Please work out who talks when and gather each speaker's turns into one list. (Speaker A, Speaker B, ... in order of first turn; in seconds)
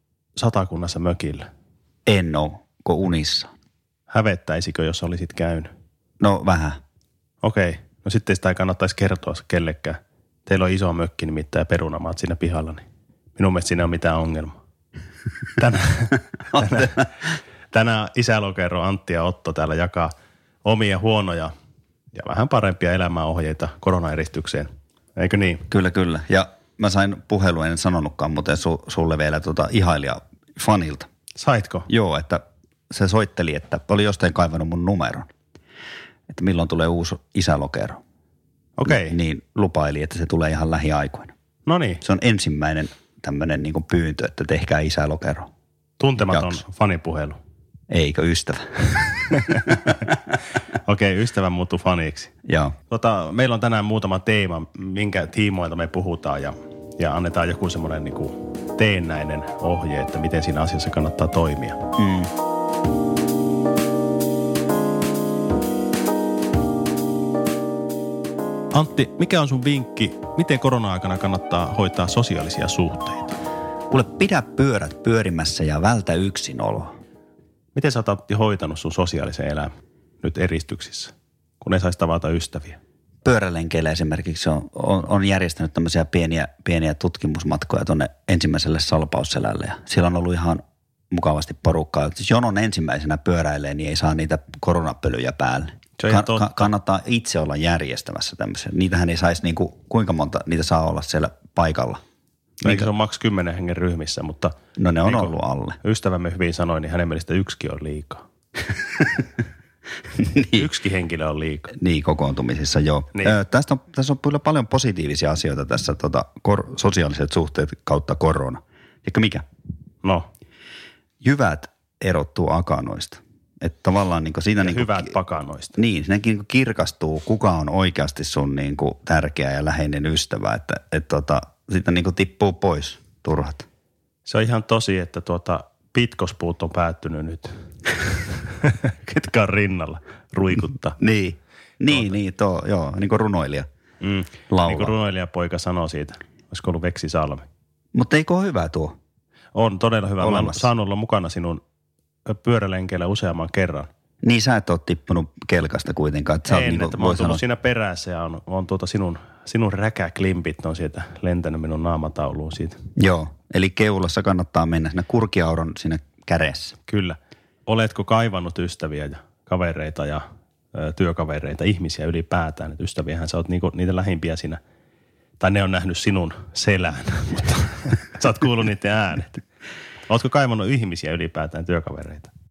Speaker A: 0.4-1.5, 4.1-5.7, 7.4-12.8, 13.3-14.5, 15.6-17.1, 17.7-20.1, 20.6-21.5, 22.1-25.6, 31.4-31.9, 38.8-39.2, 41.6-42.0, 46.0-47.4, 49.3-50.0, 50.7-52.3, 52.9-61.8, 68.7-73.4, 77.7-79.7, 80.2-82.8, 96.0-96.7, 102.6-108.2, 110.3-111.7, 124.6-125.8, 134.2-141.0, 144.0-147.4, 149.5-151.6, 152.2-153.9, 156.5-162.8, 166.9-174.6, 175.4-179.4, 180.1-182.3
Speaker B: 2.0-3.5, 6.2-6.8, 16.5-17.0, 25.7-31.1, 31.9-35.3, 36.3-38.0, 38.9-41.3, 42.0-45.5, 46.2-46.6, 47.9-50.1, 52.4-52.7, 62.0-62.3, 73.9-77.0, 83.2-102.0, 104.8-105.8, 110.2-110.7, 111.7-119.4, 121.2-125.1, 125.7-133.7, 141.0-143.7, 144.5-144.9, 147.9-149.0, 150.2-150.7, 154.2-157.4, 163.0-166.7